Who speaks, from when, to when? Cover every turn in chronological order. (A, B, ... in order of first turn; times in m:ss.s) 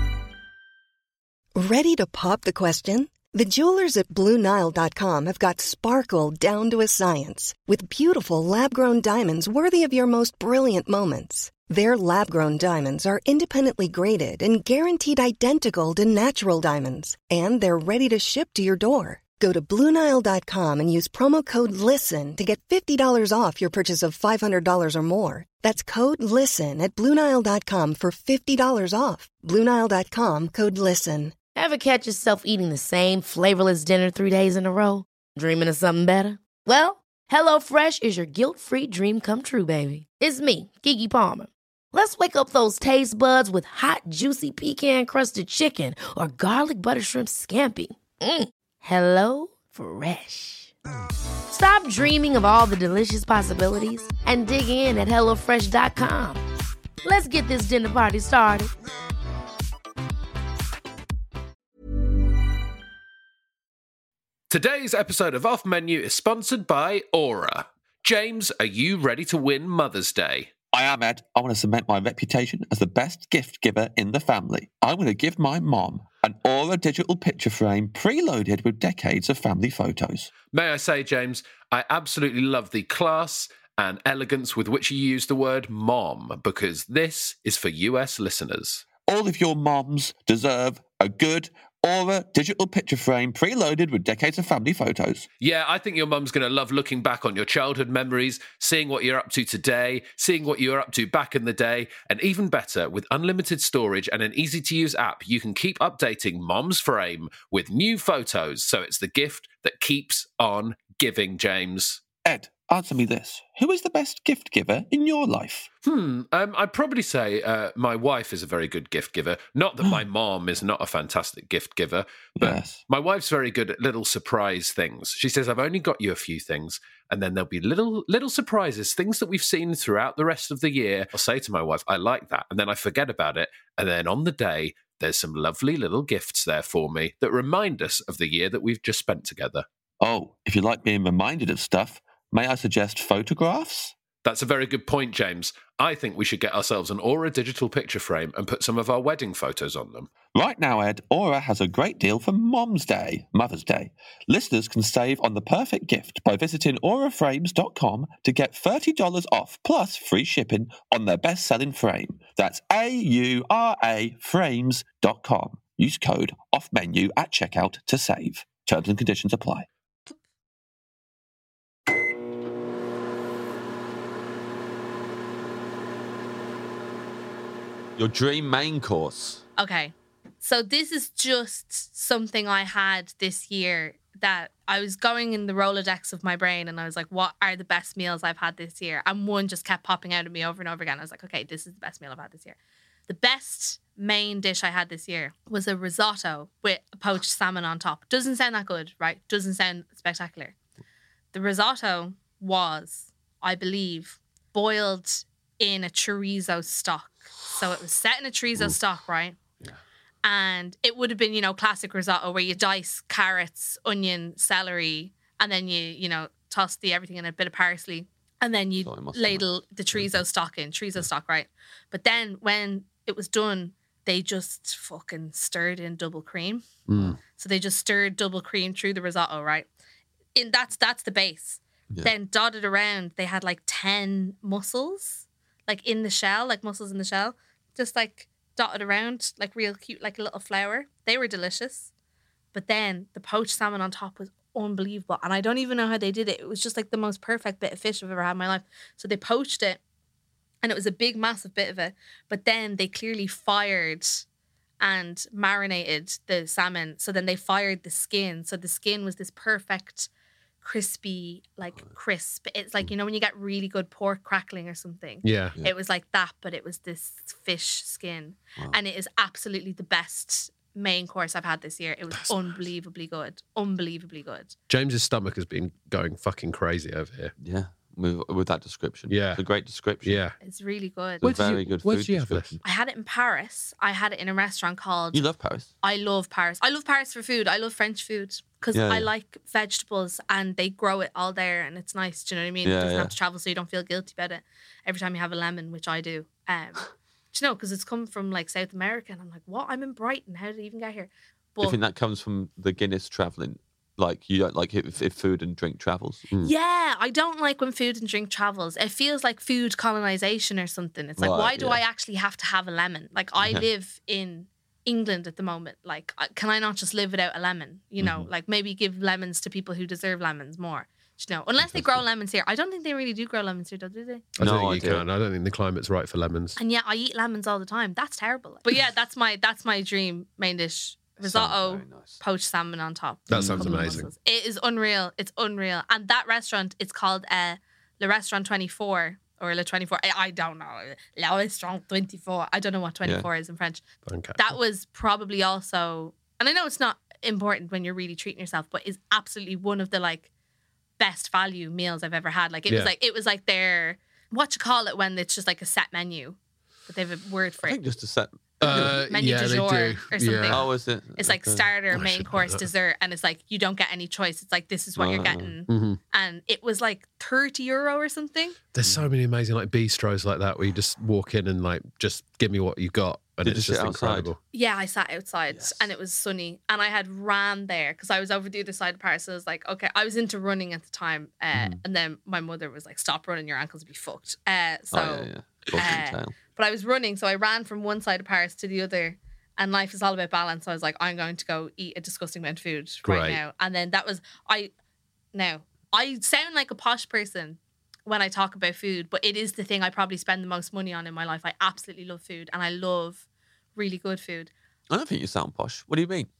0:01.6-0:31.4 A
0:31.5-0:50.7 B
0:51.5-0:56.4 B
0:57.0-0:58.7 B
1:04.5-1:10.5 C
1:10.7-1:20.3 D
1:20.5-1:28.8 C
1:29.0-1:35.3 D
1:35.4-1:52.0 C
1:52.2-1:55.7 D
1:55.8-2:19.6 C
2:02.4-2:02.8 D
2:20.0-2:23.9 D
2:24.2-2:30.1 C
2:30.3-2:49.7 D
2:58.0-2:59.4 D
2:59.6-3:20.5 E
3:21.3-3:29.4 E
3:30.2-3:46.7 E
3:38.8-3:40.2 D
3:46.9-3:47.2 C
3:47.3-3:49.7 E
3:50.3-4:01.9 E
4:02.5-4:09.8 E
4:10.6-4:14.2 E
4:14.8-4:20.1 E
4:20.6-4:34.5 E
4:25.2-4:25.6 C
4:34.7-4:37.3 C
4:37.4-4:40.2 D
4:39.1-4:39.4 C
4:40.0-4:40.4 C
4:40.4-4:41.3 E
4:41.2-4:42.6 C
4:41.2-4:42.6 D
4:42.6-4:45.2 E
4:45.1-4:45.7 D
4:45.8-5:01.8 E
4:48.7-4:49.1 D
4:52.6-4:53.1 D
5:01.6-5:06.2 D
5:06.4-5:24.3 E
5:11.2-5:11.8 D
5:13.4-5:13.6 D
5:18.0-5:18.3 D
5:21.6-5:22.0 D
5:24.4-5:26.6 C
5:24.4-5:25.0 D
5:26.6-5:43.8 E
5:31.2-5:32.2 D
5:33.3-5:34.1 C
5:33.3-5:34.0 D
5:44.0-5:44.5 C
5:44.4-5:50.3 E
5:51.0-5:57.8 E
5:57.6-5:59.0 D
5:58.6-6:00.6 C
5:58.6-6:08.6 E
6:00.5-6:01.6 D
6:01.9-6:02.7 C
6:05.0-6:05.5 D
6:05.7-6:06.0 C
6:08.7-6:14.4 C
6:13.4-6:14.3 D
6:14.5-6:34.7 E
6:15.5-6:15.9 D
6:21.5-6:21.8 D
6:24.9-6:26.3 D
6:33.0-6:33.4 C
6:35.3-6:43.2 E
6:43.8-6:44.5 E
6:44.9-6:46.3 D